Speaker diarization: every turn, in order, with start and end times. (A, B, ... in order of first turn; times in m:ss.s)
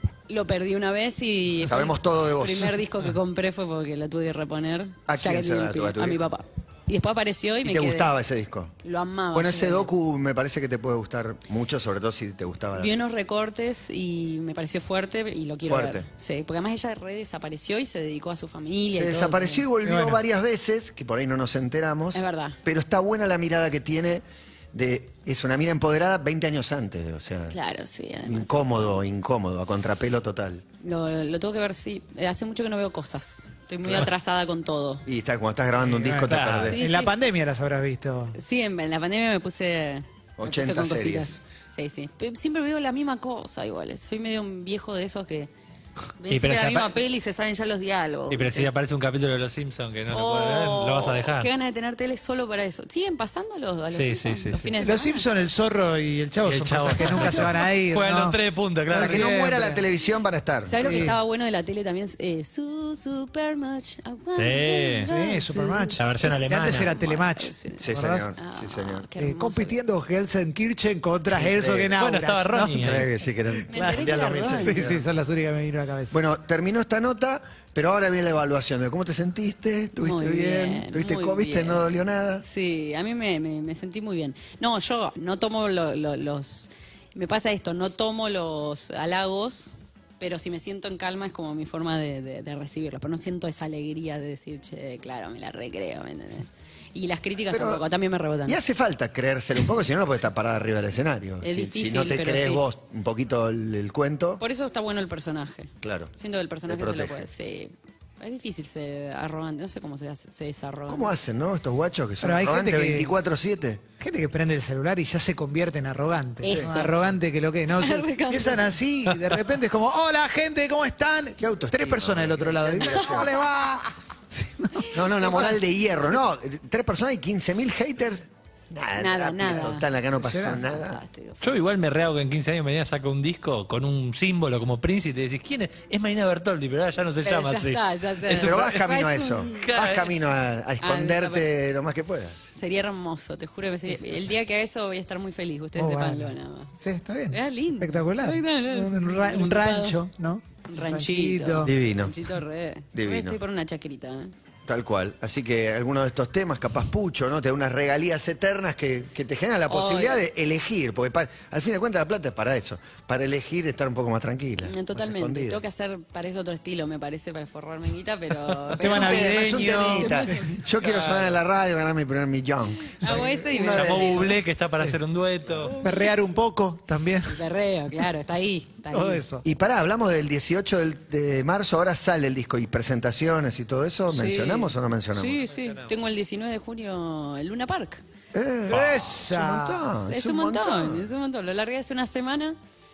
0:00.3-0:08.1 A
0:01.7-0:02.8 B
0:05.1-0:06.2 B
0:07.6-0:08.7 B
0:08.8-0:09.9 A
0:09.3-0:12.9 B
0:12.7-0:19.7 A
0:15.7-0:16.0 B
0:18.9-0:27.6 B
0:19.8-0:20.2 C
0:22.1-0:22.6 A
0:27.5-0:29.0 A
0:28.2-0:30.6 B
0:30.8-0:35.0 A
0:35.0-0:36.9 B
0:35.8-0:38.4 C
0:36.3-0:36.7 D
0:36.7-0:37.1 A
0:38.3-0:45.5 A
0:40.4-0:41.4 B
0:46.2-0:48.7 A
0:46.3-0:47.0 D
0:48.3-0:51.5 D
0:50.1-0:55.2 A
0:53.9-0:54.8 D
0:54.8-0:59.8 C
0:56.4-0:59.3 D
0:58.9-1:01.0 B
1:00.7-1:09.8 A
1:00.8-1:01.2 C
1:04.4-1:05.1 D
1:05.0-1:08.3 C
1:06.0-1:06.9 D
1:07.8-1:09.0 B
1:09.2-1:13.1 C
1:11.4-1:11.9 B
1:12.0-1:13.1 D
1:12.8-1:15.0 B
1:13.7-1:14.9 A
1:13.7-1:16.2 C
1:16.1-1:22.4 B
1:20.0-1:38.6 A
1:37.5-1:37.8 B
1:38.4-1:44.4 B
1:41.4-1:42.6 A
1:44.4-1:51.1 A
1:45.8-1:46.1 B
1:46.7-1:47.3 B
1:50.9-1:53.8 B
1:52.2-1:53.1 C
1:54.0-2:05.6 C
1:56.4-1:57.1 A
1:56.4-1:56.7 B
1:57.7-1:58.7 A
2:01.4-2:03.4 B
2:04.9-2:11.0 B
2:09.0-2:09.9 A
2:10.1-2:10.6 C
2:10.6-2:11.6 A
2:11.4-2:19.0 D
2:17.2-2:19.7 A
2:18.3-2:22.4 B
2:19.6-2:20.1 D
2:20.8-2:21.5 A
2:22.6-2:26.7 A
2:25.8-2:31.7 C
2:27.3-2:30.0 A
2:30.7-2:34.3 A
2:31.6-2:32.2 B
2:32.9-2:33.4 B
2:34.6-2:45.6 B
2:39.7-2:40.2 A
2:44.6-2:50.4 A
2:48.8-2:50.6 C
2:48.8-2:54.4 B
2:50.8-2:51.4 D
2:52.9-2:54.4 A
2:53.6-2:55.7 D
2:55.6-2:56.1 A
2:55.8-2:57.4 C
2:57.3-2:59.3 A
2:58.9-2:59.4 C
2:59.4-3:05.4 B
3:04.1-3:08.0 A
3:08.3-3:11.1 B
3:08.7-3:09.9 C
3:10.0-3:12.6 A